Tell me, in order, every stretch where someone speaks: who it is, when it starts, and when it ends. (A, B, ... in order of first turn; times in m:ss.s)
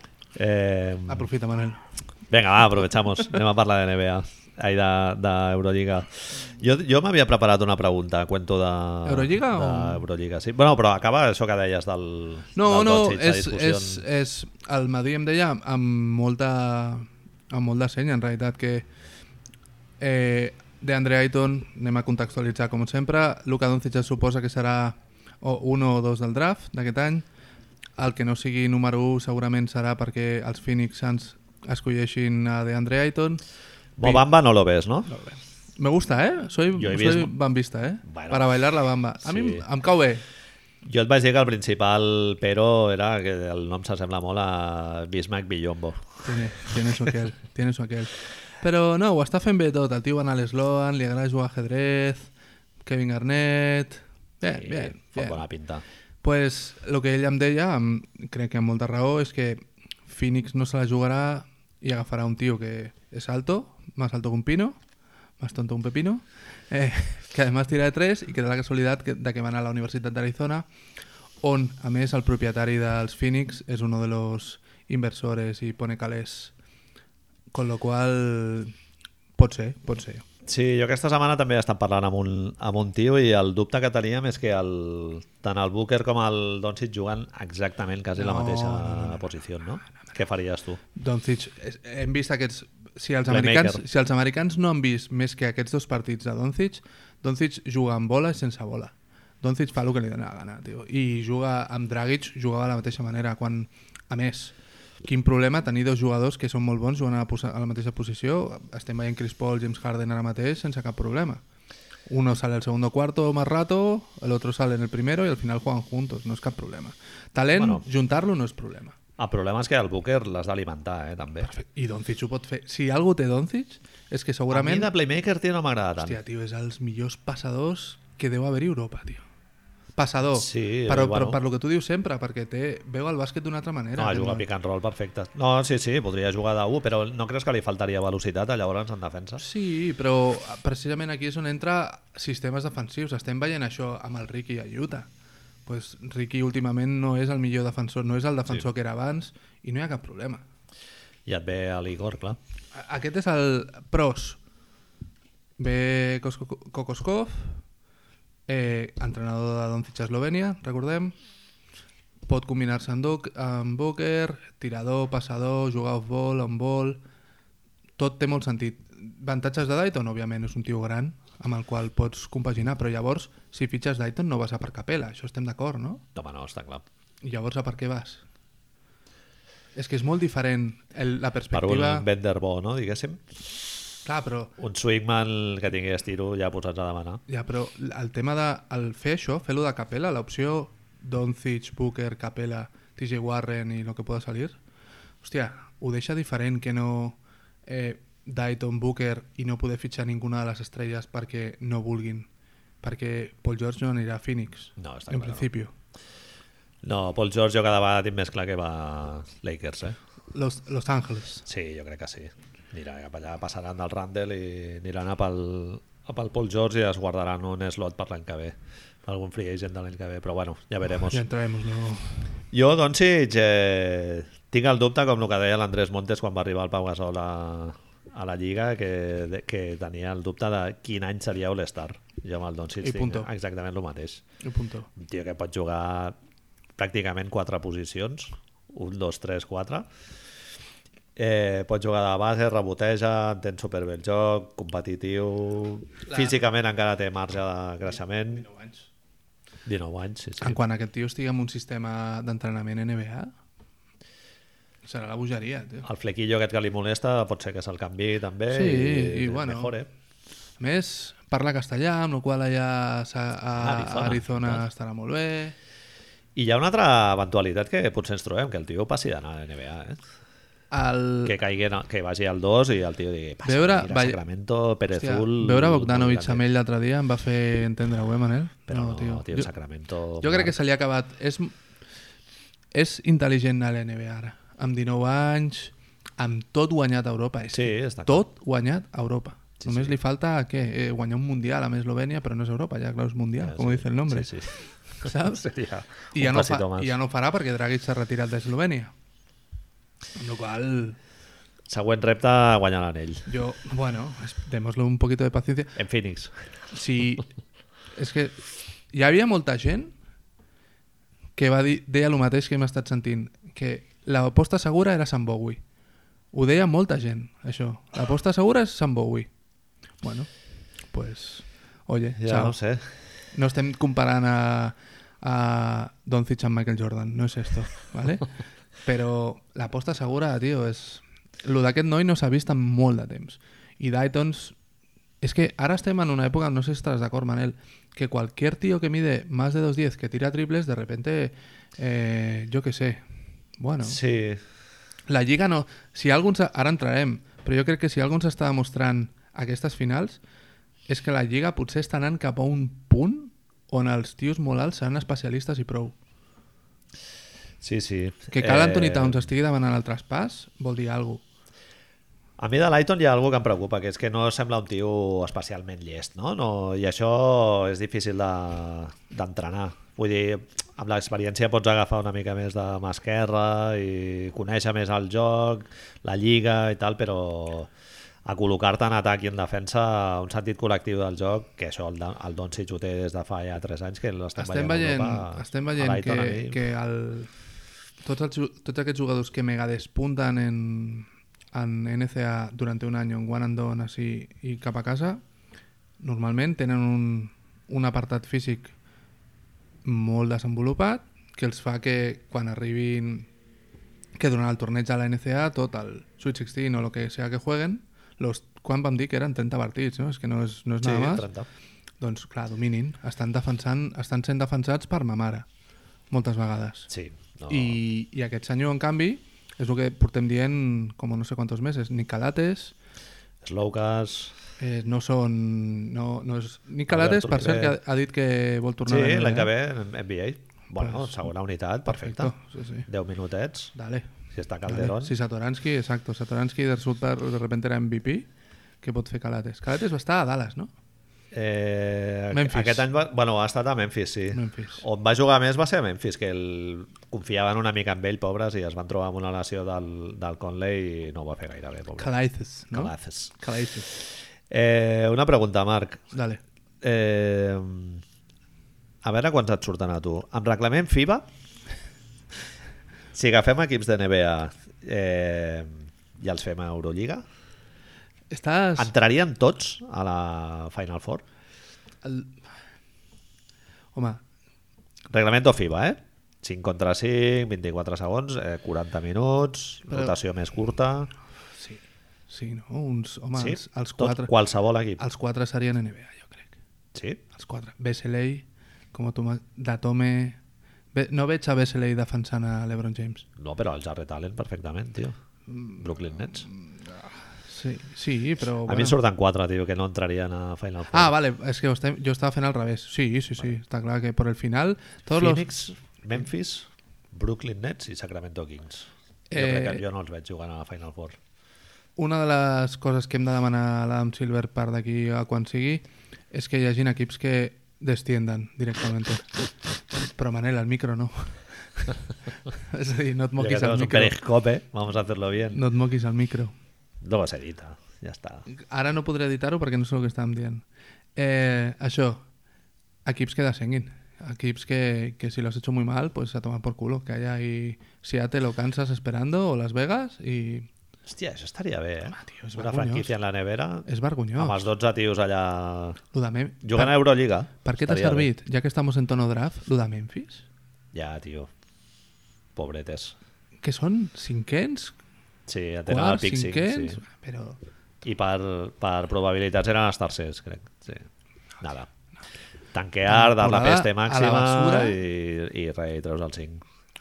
0:00.4-0:01.3 A
0:01.1-0:01.8 B
0:02.3-0:14.0 A
0:09.0-0:10.0 B
0:12.6-0:18.9 B
0:20.0-0:27.2 B
0:28.0-0:33.4 B
0:34.0-0:35.1 A
0:34.0-0:34.3 B
0:35.1-0:40.2 B
0:36.7-0:37.3 A
0:38.0-0:38.6 A
0:39.2-0:39.6 A
0:40.8-0:46.3 A
0:46.2-0:52.3 B
0:52.8-0:55.4 B
0:54.6-0:55.8 A
0:56.2-1:04.8 B
1:05.4-1:10.6 B
1:11.4-1:16.5 B
1:17.5-1:18.7 B
1:19.4-1:20.2 B
1:20.4-1:30.8 A
1:28.2-1:29.3 B
1:30.9-1:51.4 B
1:33.3-1:33.8 A
1:52.1-1:59.0 B
1:57.6-1:57.8 A
1:59.2-2:01.5 A
2:01.4-2:04.9 B
2:04.5-2:06.2 A
2:06.0-2:09.2 B
2:10.0-2:14.4 B
2:10.4-2:11.4 A
2:14.0-2:19.4 A
2:19.4-2:25.1 B
2:25.7-2:30.4 B
2:31.3-2:32.4 A
2:32.7-2:34.4 B
2:35.6-2:37.6 B
2:38.5-2:41.2 B
2:42.3-2:47.0 B
2:48.0-2:56.0 B
2:56.2-2:56.8 A
2:57.2-2:58.2 B
2:59.8-3:02.1 B
3:01.5-3:03.4 A
3:04.0-3:04.5 B
3:04.6-3:07.2 A
3:07.3-3:14.6 B
3:15.2-3:22.3 B
3:22.8-3:25.7 B
3:24.8-3:25.5 A
3:26.8-3:30.0 A
3:30.3-3:31.5 B
3:31.5-3:41.2 A
3:41.1-3:42.2 B
3:42.5-3:54.2 A
3:52.8-3:53.3 B
3:54.4-3:54.9 B
3:55.0-3:56.2 A
3:56.8-3:59.9 A
4:01.2-4:08.5 A
4:06.1-4:06.4 B
4:08.4-4:08.8 B
4:09.6-4:10.6 A
4:10.4-4:13.3 B
4:14.8-4:15.9 B
4:15.8-4:19.9 A
4:18.5-4:19.8 B
4:20.6-4:25.6 B
4:23.6-4:24.6 A
4:26.4-4:30.0 A
4:30.7-4:31.4 B
4:31.2-4:36.4 A
4:33.4-4:34.2 B
4:34.9-4:39.5 B
4:38.7-4:40.6 A
4:40.2-4:41.6 B
4:42.7-4:54.3 B
4:47.5-4:48.2 A
4:49.6-4:49.9 A
4:53.4-4:56.9 A
4:55.0-4:55.4 B
4:56.1-4:58.9 B
5:00.2-5:01.0 B
5:01.7-5:03.3 A
5:03.3-5:05.8 B
5:05.8-5:06.3 A
5:06.7-5:07.3 B
5:08.0-5:08.4 B
5:08.9-5:09.9 B
5:11.4-5:15.6 B
5:16.3-5:19.3 B
5:20.0-5:20.3 B
5:20.9-5:22.6 B
5:22.2-5:22.9 A
5:23.3-5:28.3 B
5:28.8-5:34.6 B
5:35.2-5:43.0 B
5:43.6-5:44.0 B
5:43.8-5:44.4 A
5:45.1-5:50.2 B
5:50.9-5:56.0 B
5:57.6-5:59.3 A
5:58.3-6:01.2 B
6:02.4-6:17.7 A
6:18.2-6:26.6 A
6:24.4-6:27.3 B
6:28.0-6:35.2 B
6:36.0-6:38.7 B
6:39.8-6:43.3 B
6:44.2-6:51.3 B
6:50.8-6:51.5 A
6:52.0-6:55.5 B
6:56.1-6:56.9 B
6:56.9-6:57.8 A
6:57.5-7:02.8 B
7:03.4-7:04.4 A
7:04.6-7:09.5 B
7:06.9-7:07.8 A
7:08.9-7:12.3 A
7:10.8-7:11.3 B
7:11.9-7:12.9 B
7:12.9-7:13.7 A
7:13.8-7:14.1 B
7:14.3-7:15.1 A
7:14.7-7:18.3 B
7:18.8-7:20.7 B
7:21.3-7:32.1 A
7:22.3-7:22.9 B
7:24.3-7:24.8 B
7:32.0-7:33.9 B
7:32.7-7:33.3 A
7:33.9-7:36.0 A
7:36.1-7:36.4 B
7:36.8-7:38.0 A
7:39.0-7:41.3 A
7:43.1-7:47.2 A
7:48.3-7:48.9 B
7:48.8-7:51.2 A
7:52.0-7:52.3 B
7:54.0-7:54.2 B
7:55.1-8:01.1 A
7:59.9-8:00.2 B
8:01.6-8:04.3 B
8:03.4-8:05.0 A
8:05.0-8:06.6 B
8:07.0-8:07.2 A
8:07.3-8:10.4 B
8:10.9-8:13.3 B
8:13.4-8:15.2 A
8:15.5-8:15.8 B
8:15.8-8:16.5 A
8:16.4-8:19.0 B
8:18.7-8:21.1 A
8:20.9-8:25.5 B
8:25.2-8:31.2 A
8:29.3-8:29.8 B
8:32.0-8:39.3 B
8:39.9-8:42.0 B
8:42.7-8:44.2 B
8:43.4-8:45.6 A
8:45.5-8:46.5 B
8:47.0-8:48.4 A
8:48.5-8:50.6 B
8:51.2-8:52.2 B
8:53.0-9:00.7 B
9:01.1-9:06.0 A
9:02.1-9:03.1 B
9:03.9-9:04.6 B
9:06.1-9:07.0 B
9:06.6-9:08.3 A
9:07.6-9:10.4 B
9:10.9-9:11.5 A
9:12.6-9:13.2 A
9:13.6-9:15.0 B
9:15.5-9:17.0 A
9:15.9-9:17.6 B
9:18.0-9:21.1 A
9:21.6-9:21.9 A
9:22.7-9:26.6 A
9:23.1-9:25.0 B